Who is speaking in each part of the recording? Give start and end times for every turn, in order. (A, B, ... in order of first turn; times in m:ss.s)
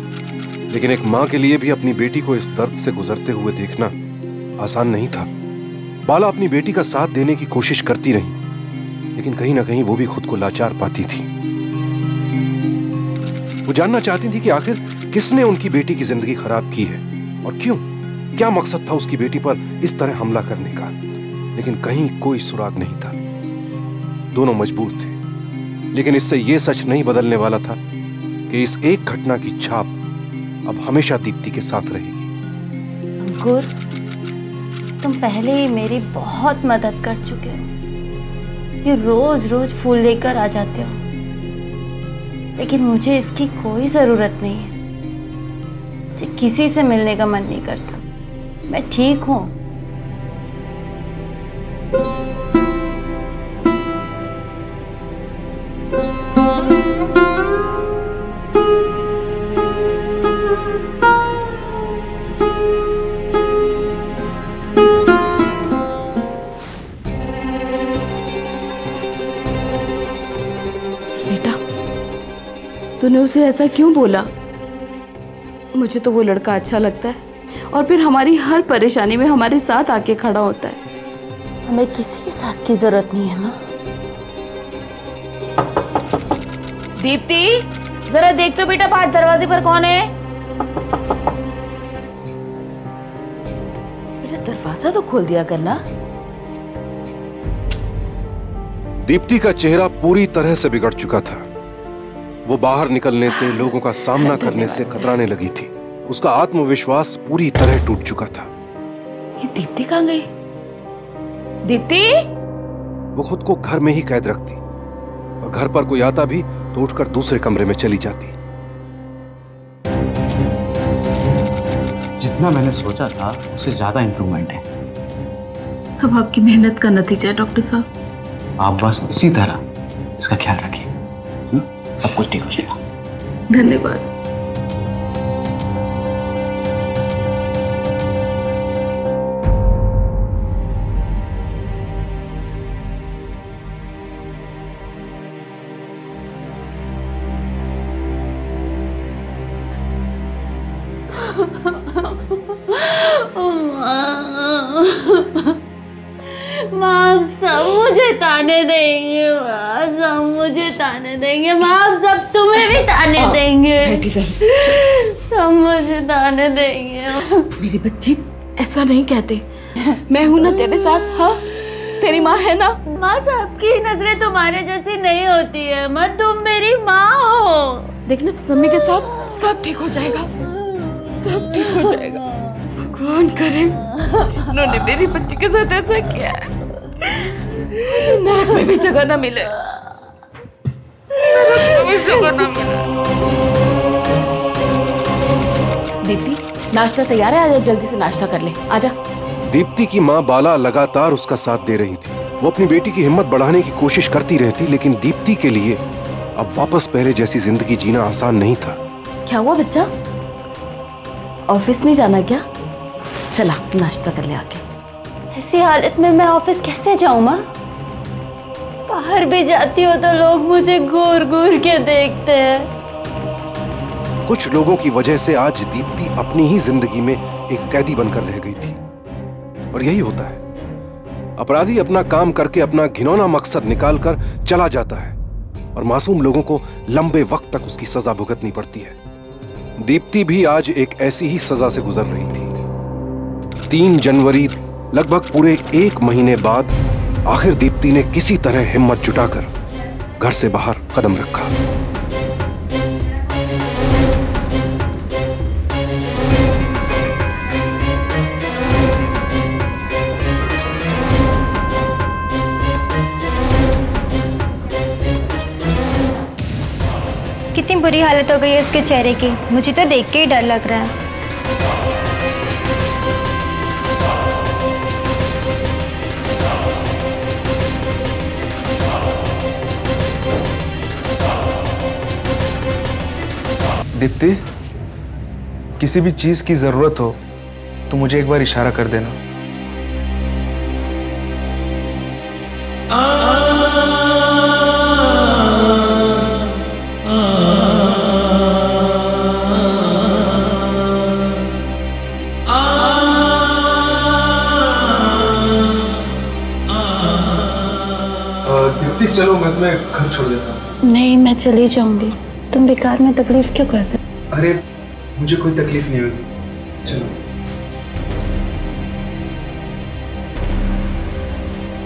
0:00.7-0:03.9 A
0:04.6-0:05.3 A
0:06.0-0:08.4 A
0:09.2-0:11.3 A
0:13.7-0:17.8 A
0:18.4-0:21.0 A
0:21.6-0:23.2 A
0:24.3-0:25.2 A
0:25.9-0:27.8 A
0:28.5-0:30.0 A
0:30.7-0:32.3 A
0:33.2-0:33.7 B
0:35.0-0:37.6 B
0:38.8-0:41.0 B
0:42.6-0:44.7 B
0:46.2-0:48.0 B
0:48.7-0:49.5 B
1:11.3-1:11.6 C
1:13.0-1:14.3 C
1:15.8-1:17.2 C
1:17.7-1:20.8 C
1:21.7-1:23.6 B
1:27.0-1:30.1 C
1:34.2-1:35.8 C
1:39.0-1:41.5 A
1:42.4-1:48.5 A
1:43.4-1:45.1 C
1:49.4-1:50.3 C
1:51.7-1:52.3 C
1:53.2-1:54.6 A
1:55.4-1:58.3 A
2:02.2-2:04.6 D
2:06.0-2:07.8 C
2:08.6-2:09.6 D
2:10.2-2:10.9 D
2:11.5-2:12.8 D
2:13.5-2:14.0 C
2:31.2-2:35.6 B
2:36.3-2:44.0 B
2:42.6-2:44.8 C
2:44.7-2:47.5 B
2:47.6-2:49.4 C
2:50.1-2:52.8 C
2:53.0-2:57.9 B
2:58.1-3:00.3 C
3:01.1-3:02.2 C
3:02.8-3:06.5 C
3:07.1-3:09.6 C
3:11.2-3:12.9 C
3:16.0-3:19.0 C
3:19.5-3:25.8 A
3:26.4-3:28.8 A
3:29.3-3:29.9 C
3:31.5-3:32.4 C
3:33.3-3:34.6 C
3:35.3-3:37.4 B
3:38.9-3:42.7 B
3:44.3-3:48.8 A
3:49.7-3:50.4 A
3:51.4-3:55.2 A
3:55.8-3:59.0 A
3:59.8-4:02.6 A
4:03.7-4:06.7 A
4:07.3-4:09.5 A
4:10.2-4:11.5 A
4:27.5-4:30.9 E
4:44.0-4:44.4 F
4:45.8-4:47.2 F
4:47.9-4:49.2 F
5:08.4-5:10.6 F
5:10.9-5:14.0 B
5:14.3-5:14.6 F
5:15.2-5:16.3 F
5:16.8-5:17.1 F